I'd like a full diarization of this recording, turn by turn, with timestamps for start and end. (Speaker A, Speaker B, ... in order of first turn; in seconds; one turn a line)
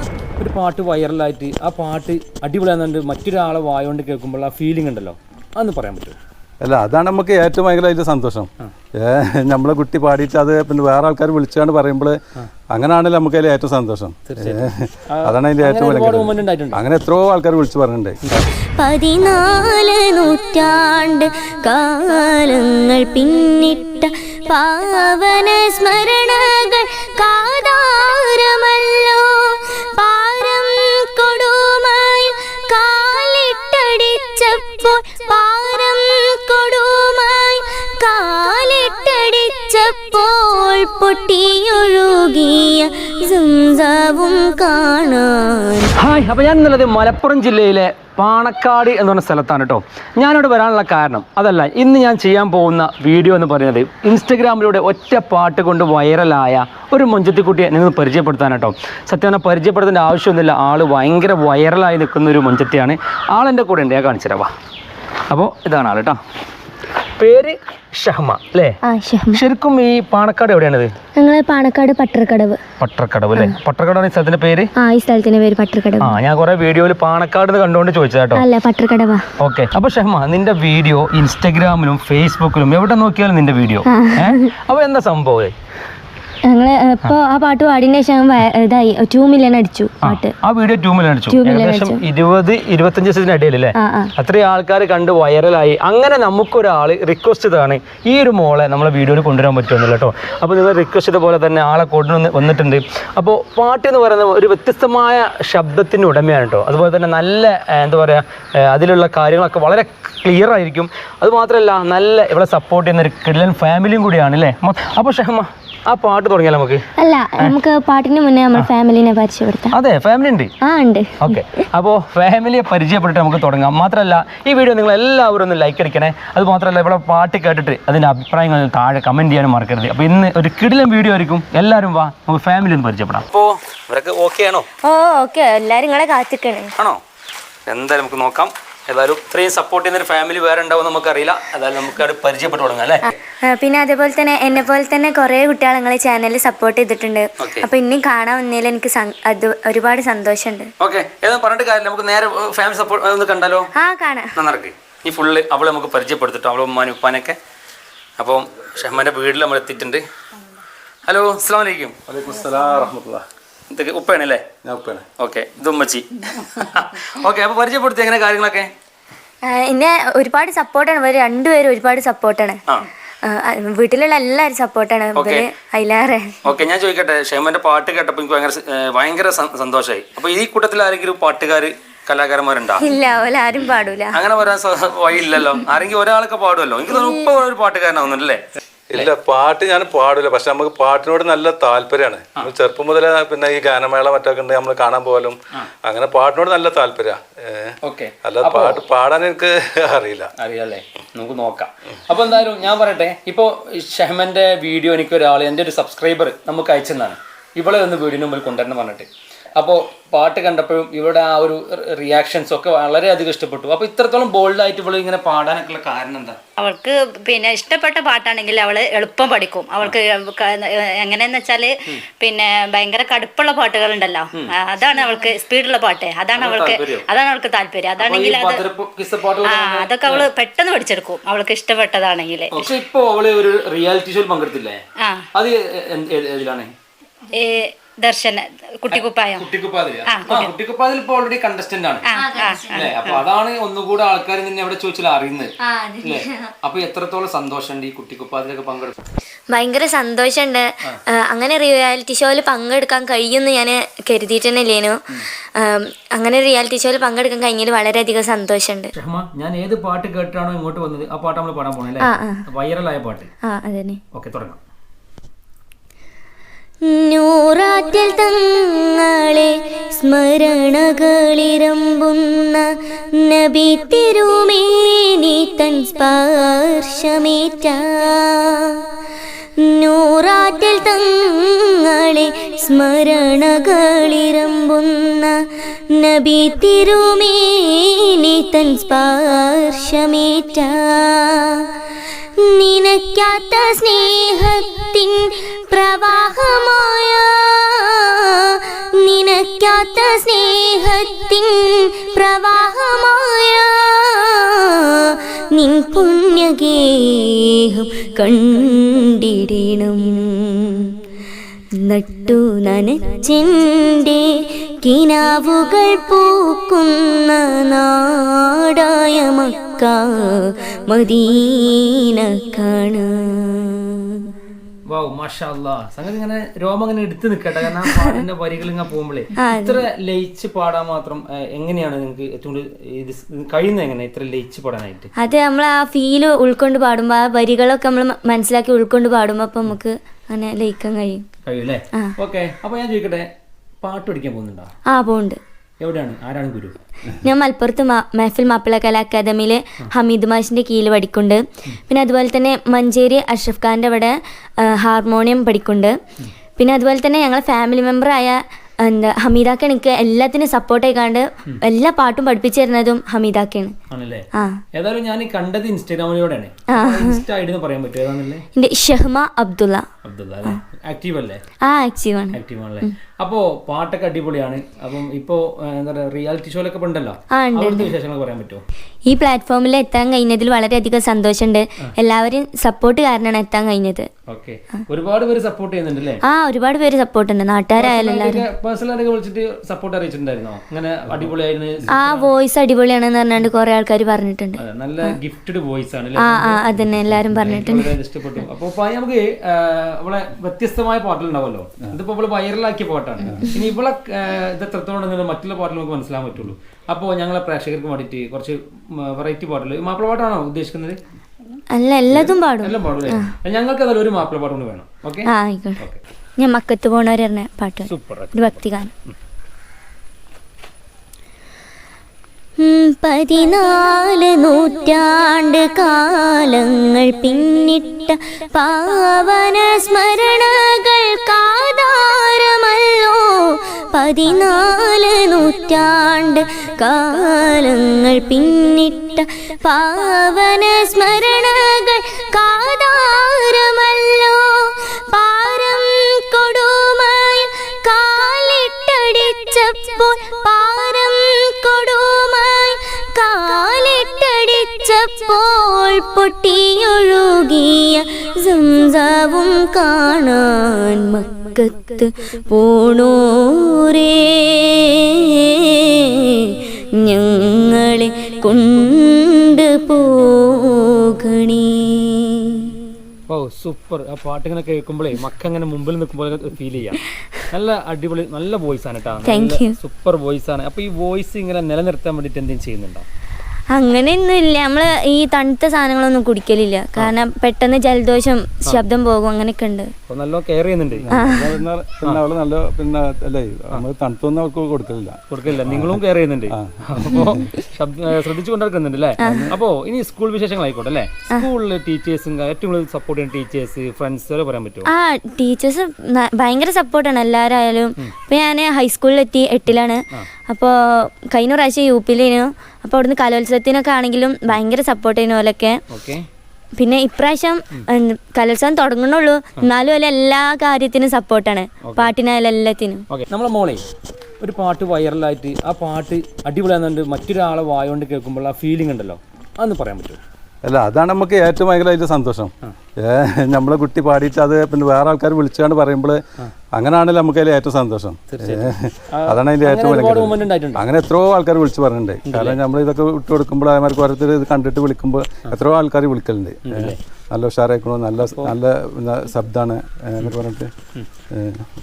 Speaker A: 0.4-6.2
Speaker B: 6.6-12.2
Speaker B: 12.7-18.4
Speaker A: 14.3-16.8
Speaker C: 18.8-45.9
Speaker A: 46.0-64.5
Speaker A: 65.3-66.2
Speaker A: 67.2-68.8
Speaker C: 68.8-69.4
Speaker A: 69.3-70.9
Speaker C: 71.2-72.6
Speaker A: 72.8-74.7
Speaker C: 74.8-76.2
Speaker A: 76.0-78.4
Speaker C: 78.3-79.2
Speaker A: 79.4-85.5
Speaker C: 83.9-84.5
Speaker C: 86.5-90.3
Speaker A: 90.0-116.8
Speaker C: 91.3-92.0
Speaker C: 93.8-94.1
Speaker C: 117.0-119.8
Speaker A: 119.7-120.5
Speaker C: 120.6-121.4
Speaker A: 121.2-134.7
Speaker C: 134.8-136.7
Speaker A: 137.7-143.1
Speaker C: 143.1-150.7
Speaker A: 147.4-147.7
Speaker A: 150.8-153.7
Speaker C: 153.8-154.3
Speaker A: 154.4-157.4
Speaker A: 158.2-160.0
Speaker A: 161.1-162.0
Speaker B: 162.1-163.2
Speaker A: 163.7-164.4
Speaker B: 164.6-165.1
Speaker A: 165.2-168.7
Speaker C: 169.5-172.6
Speaker C: 173.2-176.4
Speaker A: 175.2-175.5
Speaker A: 176.4-182.8
Speaker C: 182.8-184.2
Speaker A: 184.1-189.1
Speaker C: 186.9-187.3
Speaker B: 188.9-200.3
Speaker A: 197.8-198.8
Speaker A: 200.4-216.4
Speaker D: 216.6-228.7
Speaker A: 226.3-227.1
Speaker A: 228.0-230.3
Speaker D: 229.4-232.7
Speaker A: 232.5-234.8
Speaker D: 235.0-235.3
Speaker A: 235.3-236.7
Speaker D: 237.3-239.5
Speaker A: 238.9-242.1
Speaker D: 240.1-240.5
Speaker D: 242.1-243.2
Speaker C: 242.1-242.9
Speaker A: 242.7-245.5
Speaker C: 245.6-246.5
Speaker A: 246.0-248.9
Speaker C: 249.5-255.0
Speaker C: 255.6-258.9
Speaker A: 258.9-263.3
Speaker C: 262.0-262.4
Speaker C: 263.4-264.0
Speaker A: 264.1-264.6
Speaker C: 266.9-278.8
Speaker C: 279.6-291.7
Speaker C: 292.4-310.9
Speaker C: 311.8-314.3
Speaker C: 314.8-324.3
Speaker A: 324.9-335.1
Speaker C: 329.4-329.8
Speaker C: 335.2-341.2
Speaker A: 341.4-343.3
Speaker A: 343.8-344.7
Speaker C: 344.9-345.4
Speaker A: 345.8-346.8
Speaker C: 347.2-355.9
Speaker C: 356.6-363.7
Speaker A: 363.9-368.4
Speaker C: 364.4-364.6
Speaker C: 366.7-367.2
Speaker C: 368.6-369.9
Speaker A: 370.0-371.4
Speaker C: 371.7-372.9
Speaker A: 372.3-378.6
Speaker C: 377.4-377.9
Speaker C: 379.1-384.1
Speaker A: 384.3-386.2
Speaker C: 386.3-388.4
Speaker A: 387.8-392.3
Speaker C: 391.9-394.6
Speaker A: 394.6-411.0
Speaker C: 396.2-397.9
Speaker C: 411.7-413.3
Speaker A: 412.1-415.3
Speaker C: 415.3-415.8
Speaker C: 416.4-418.9
Speaker A: 417.9-418.5
Speaker C: 422.6-472.7
Speaker A: 473.3-477.0
Speaker A: 477.5-483.1
Speaker C: 479.2-479.8
Speaker C: 483.7-489.9
Speaker A: 490.1-491.1
Speaker B: 491.0-496.0
Speaker C: 491.1-491.5
Speaker A: 495.3-504.9
Speaker B: 496.5-497.3
Speaker C: 497.1-497.5
Speaker C: 499.2-499.5
Speaker B: 499.2-499.5
Speaker C: 504.9-515.8
Speaker A: 515.9-516.3
Speaker C: 516.8-523.1
Speaker A: 521.8-522.1
Speaker A: 523.1-523.8
Speaker A: 524.4-530.2
Speaker B: 530.6-536.2
Speaker B: 536.8-550.7
Speaker A: 538.3-540.9
Speaker A: 542.3-542.6
Speaker A: 546.6-547.0
Speaker B: 551.3-551.7